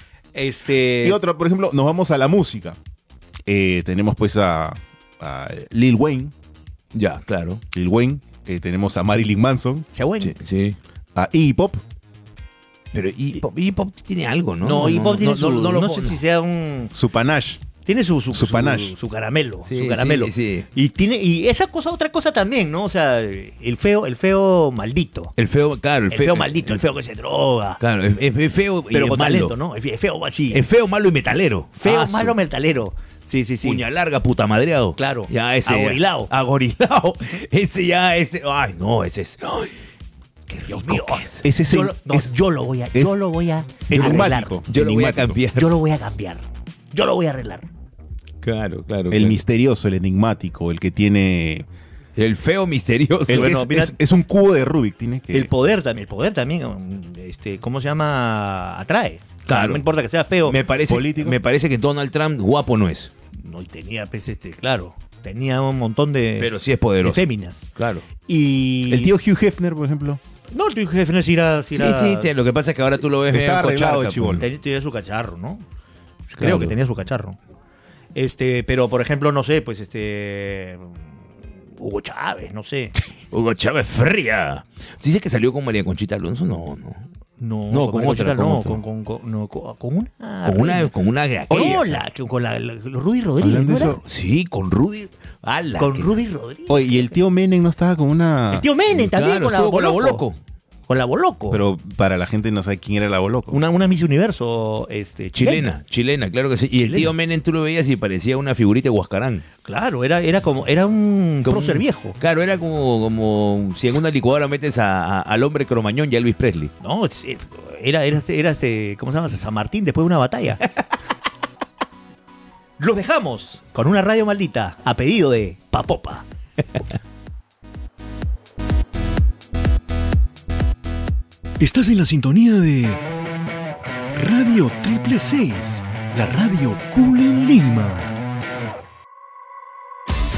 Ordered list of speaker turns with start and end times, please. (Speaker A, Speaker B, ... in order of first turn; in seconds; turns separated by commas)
Speaker A: 0.3-1.2, Speaker B: 1.0-2.8, Speaker B: 3.5-6.3, Speaker C: 6.9-7.6, Speaker B: 7.7-9.9, Speaker A: 9.9-10.3, Speaker C: 10.2-10.8, Speaker B: 11.1-11.8, Speaker C: 12.9-16.2, Speaker A: 14.6-16.9, Speaker B: 16.9-17.6, Speaker A: 17.8-25.3, Speaker B: 18.3-18.9, Speaker C: 19.6-20.7, Speaker C: 25.4-26.8, Speaker A: 26.1-27.8, Speaker C: 27.8-29.5, Speaker A: 28.9-30.6, Speaker C: 30.5-32.4, Speaker A: 31.8-33.8, Speaker C: 33.6-39.7, Speaker A: 35.0-36.3, Speaker C: 40.5-41.4, Speaker A: 40.7-44.6, Speaker B: 41.4-42.3, Speaker B: 43.9-45.4, Speaker C: 43.9-45.8, Speaker A: 45.5-47.7, Speaker C: 48.4-49.4, Speaker B: 49.1-51.6, Speaker C: 52.1-53.8, Speaker B: 53.3-55.5, Speaker A: 53.3-53.9, Speaker A: 55.3-60.6, Speaker C: 59.5-59.8, Speaker C: 60.4-63.1, Speaker B: 60.9-61.4, Speaker A: 63.4-66.5, Speaker C: 66.4-67.2, Speaker A: 67.0-67.7, Speaker C: 67.8-68.0, Speaker A: 68.3-69.1, Speaker B: 68.9-70.2, Speaker A: 70.5-72.3, Speaker C: 71.7-74.4, Speaker B: 73.3-74.5, Speaker A: 74.4-75.6, Speaker A: 76.3-77.4, Speaker C: 76.4-76.8, Speaker A: 78.1-81.0, Speaker A: 81.8-82.9, Speaker C: 83.3-87.0, Speaker A: 87.4-90.9, Speaker C: 87.7-88.8, Speaker C: 90.4-92.0, Speaker A: 91.5-94.0, Speaker B: 93.4-94.0, Speaker C: 94.0-96.2, Speaker A: 95.8-97.2, Speaker B: 96.7-98.7, Speaker A: 98.5-100.2, Speaker C: 98.9-100.4, Speaker A: 100.9-101.6, Speaker B: 101.5-103.6, Speaker A: 103.5-105.7, Speaker C: 105.3-109.4, Speaker A: 106.8-107.1, Speaker A: 109.6-112.2, Speaker C: 111.4-116.7, Speaker A: 116.8-120.6, Speaker A: 122.8-126.2, Speaker D: 131.6-133.0, Speaker D: 134.2-138.1